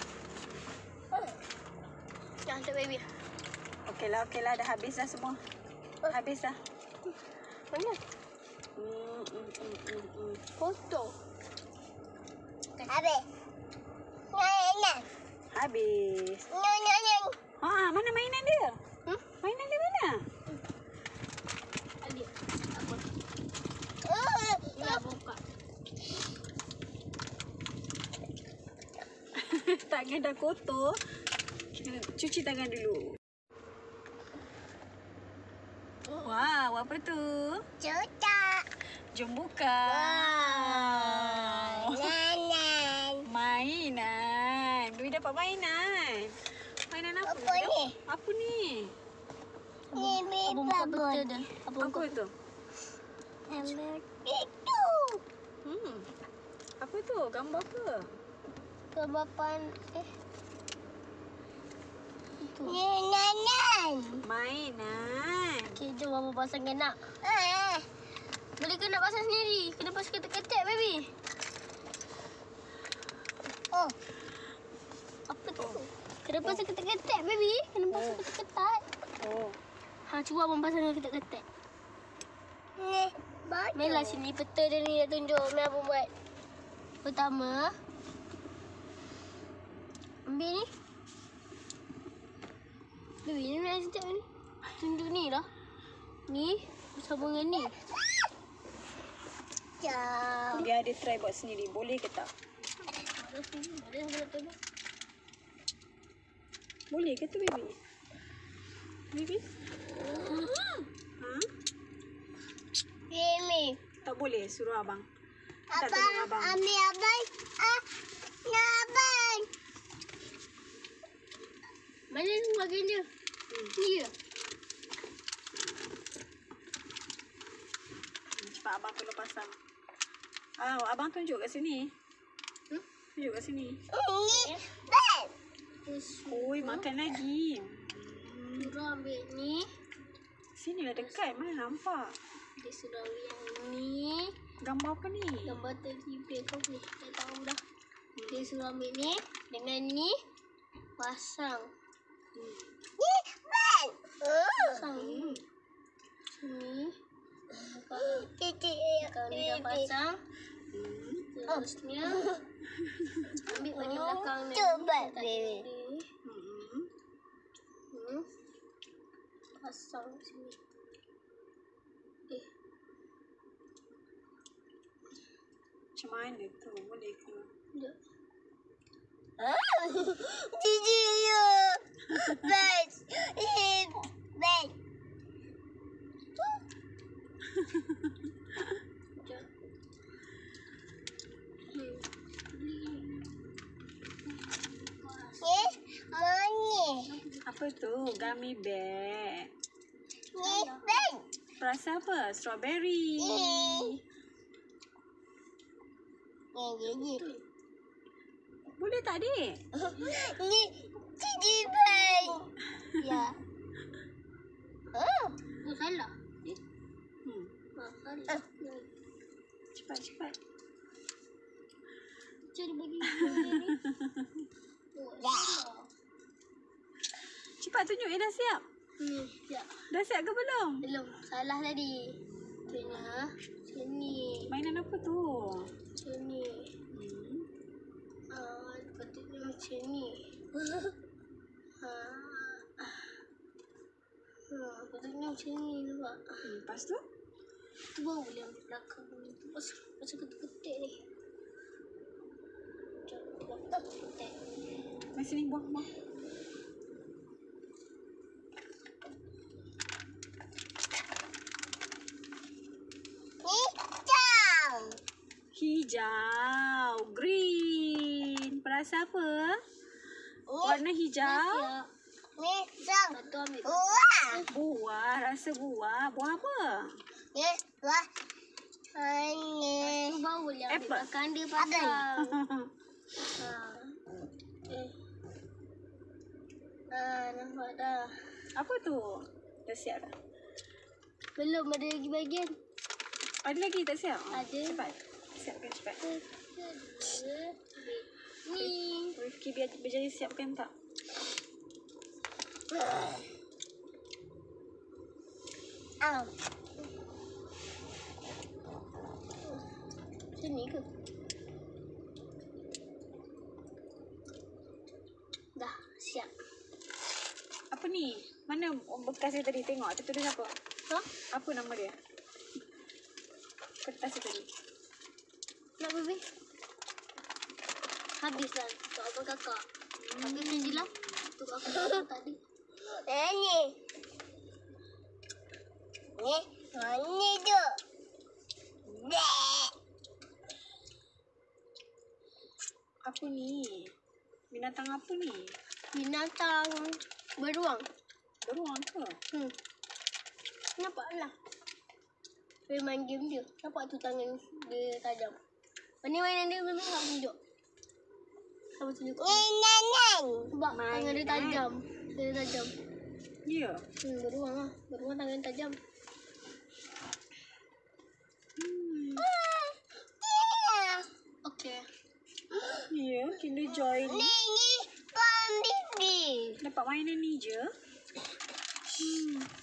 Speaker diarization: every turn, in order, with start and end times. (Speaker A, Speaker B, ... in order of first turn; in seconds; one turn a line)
Speaker A: 2.5-3.1
Speaker B: 3.9-5.4
Speaker B: 6.1-6.6
Speaker A: 7.7-8.0
Speaker B: 8.8-10.4
Speaker A: 10.6-11.1
Speaker C: 12.9-13.2
Speaker C: 14.3-15.1
Speaker B: 15.5-16.5
Speaker C: 16.5-17.4
Speaker B: 17.6-18.8
Speaker B: 19.4-20.2
Speaker A: 22.0-23.0
Speaker C: 24.0-25.0
Speaker A: 24.8-25.4
Speaker B: 29.4-31.0
Speaker B: 31.8-33.2
Speaker B: 36.1-37.6
Speaker C: 37.8-38.7
Speaker B: 39.1-42.1
Speaker C: 39.8-43.3
Speaker B: 43.3-46.4
Speaker B: 46.9-49.0
Speaker C: 47.2-47.9
Speaker A: 49.9-52.1
Speaker C: 50.0-51.3
Speaker B: 51.8-52.3
Speaker C: 53.5-55.2
Speaker B: 55.6-56.1
Speaker B: 56.8-58.1
Speaker A: 58.9-60.1
Speaker A: 62.4-62.8
Speaker C: 62.6-64.2
Speaker B: 64.2-65.8
Speaker A: 65.8-67.0
Speaker C: 67.2-67.9
Speaker A: 68.6-71.1
Speaker C: 73.7-74.0
Speaker A: 75.3-78.9
Speaker B: 77.9-78.2
Speaker B: 79.2-79.6
Speaker A: 80.1-81.5
Speaker C: 82.8-84.2
Speaker A: 83.8-86.1
Speaker A: 87.0-87.8
Speaker A: 90.3-90.7
Speaker A: 93.2-94.3
Speaker A: 94.8-95.5
Speaker A: 96.3-97.8
Speaker C: 99.8-100.7
Speaker B: 100.5-102.3
Speaker A: 103.0-104.6
Speaker B: 106.9-107.8
Speaker B: 109.1-109.5
Speaker B: 111.2-111.5
Speaker C: 113.1-113.8
Speaker B: 114.0-115.1
Speaker C: 115.7-117.8
Speaker B: 115.8-116.6
Speaker C: 118.5-119.5
Speaker A: 122.1-123.1
Speaker A: 123.8-124.1
Speaker B: 128.4-129.6
Speaker B: 130.6-131.9
Speaker B: 133.2-133.8
Speaker C: 133.9-135.3
Speaker A: 134.3-134.7
Speaker A: 135.8-136.9
Speaker B: 136.3-138.8
Speaker A: 138.6-139.7
Speaker B: 140.6-142.2
Speaker A: 142.6-144.4
Speaker B: 144.6-145.6
Speaker A: 145.5-147.6
Speaker B: 148.2-148.5
Speaker A: 148.3-150.2
Speaker A: 151.0-151.7
Speaker B: 152.3-152.7
Speaker C: 153.0-154.9
Speaker A: 154.6-155.4
Speaker B: 154.9-155.4
Speaker A: 156.4-157.0
Speaker C: 157.5-159.9
Speaker A: 157.6-158.3
Speaker A: 159.1-160.2
Speaker B: 160.7-161.3
Speaker A: 161.3-162.3
Speaker C: 161.5-162.4
Speaker B: 162.8-163.4
Speaker A: 163.4-166.1
Speaker C: 163.6-165.7
Speaker B: 166.2-166.9
Speaker A: 167.9-168.3
Speaker A: 169.6-170.6
Speaker B: 176.0-177.5
Speaker C: 179.4-184.7
Speaker B: 182.1-182.4
Speaker B: 187.5-188.8
Speaker A: 189.2-189.5
Speaker A: 191.7-193.4
Speaker A: 194.8-195.8
Speaker C: 195.4-197.1
Speaker A: 197.1-197.4
Speaker B: 197.4-199.5
Speaker A: 200.3-201.0
Speaker C: 200.4-201.2
Speaker B: 201.6-204.0
Speaker C: 203.2-204.0
Speaker C: 206.6-207.2
Speaker A: 207.1-207.4
Speaker B: 208.8-209.6
Speaker C: 209.8-212.4
Speaker A: 211.7-212.4
Speaker C: 213.0-213.4
Speaker C: 214.9-215.4
Speaker A: 215.5-216.6
Speaker B: 217.2-217.5
Speaker A: 217.8-218.9
Speaker B: 219.7-220.4
Speaker A: 222.5-223.8
Speaker B: 223.0-224.4
Speaker A: 224.9-225.9
Speaker C: 225.2-225.6
Speaker B: 227.6-228.6
Speaker A: 229.0-229.8
Speaker B: 229.9-230.8
Speaker A: 230.8-234.5
Speaker B: 234.5-235.7
Speaker A: 236.0-236.7
Speaker B: 236.9-237.5
Speaker A: 238.3-240.3
Speaker A: 241.8-243.1
Speaker A: 244.5-246.4
Speaker B: 246.4-247.0
Speaker A: 248.0-251.0
Speaker A: 253.1-254.4
Speaker B: 255.2-255.9
Speaker C: 263.4-265.0
Speaker B: 265.5-269.6
Speaker C: 270.5-270.8
Speaker B: 270.6-271.7
Speaker A: 271.3-271.9
Speaker C: 272.4-274.4
Speaker A: 273.1-274.5
Speaker B: 274.5-277.0
Speaker C: 277.3-278.1
Speaker C: 278.9-280.2
Speaker A: 279.9-282.4
Speaker B: 280.7-281.1
Speaker C: 281.6-282.1
Speaker B: 282.2-282.7
Speaker A: 283.4-284.0
Speaker A: 284.7-284.9
Speaker A: 286.9-288.2
Speaker B: 288.6-290.1
Speaker A: 291.4-292.6
Speaker B: 293.4-296.0
Speaker A: 294.3-294.9
Speaker A: 296.0-299.2
Speaker B: 298.6-300.7
Speaker C: 302.7-303.3
Speaker C: 306.0-306.3
Speaker A: 310.4-310.9
Speaker A: 315.6-316.3
Speaker B: 317.7-320.5
Speaker B: 321.3-322.0
Speaker B: 323.8-324.5
Speaker A: 325.8-326.2
Speaker A: 328.2-329.6
Speaker B: 330.0-331.3
Speaker A: 330.2-332.4
Speaker C: 331.7-332.1
Speaker C: 332.9-333.8
Speaker C: 336.2-337.8
Speaker B: 338.9-339.2
Speaker C: 339.1-339.7
Speaker B: 343.1-343.9
Speaker B: 344.5-345.6
Speaker A: 345.9-347.9
Speaker B: 348.4-349.2
Speaker A: 350.8-351.3
Speaker A: 352.7-355.4
Speaker A: 356.0-357.4
Speaker A: 358.8-359.5
Speaker C: 359.2-360.5
Speaker A: 360.5-362.7
Speaker B: 360.7-361.6
Speaker B: 363.5-363.9
Speaker A: 364.0-365.8
Speaker B: 368.6-369.3
Speaker C: 369.2-371.1
Speaker A: 371.4-371.9
Speaker B: 372.9-374.4
Speaker C: 373.9-376.6
Speaker B: 376.6-377.7
Speaker B: 379.0-379.5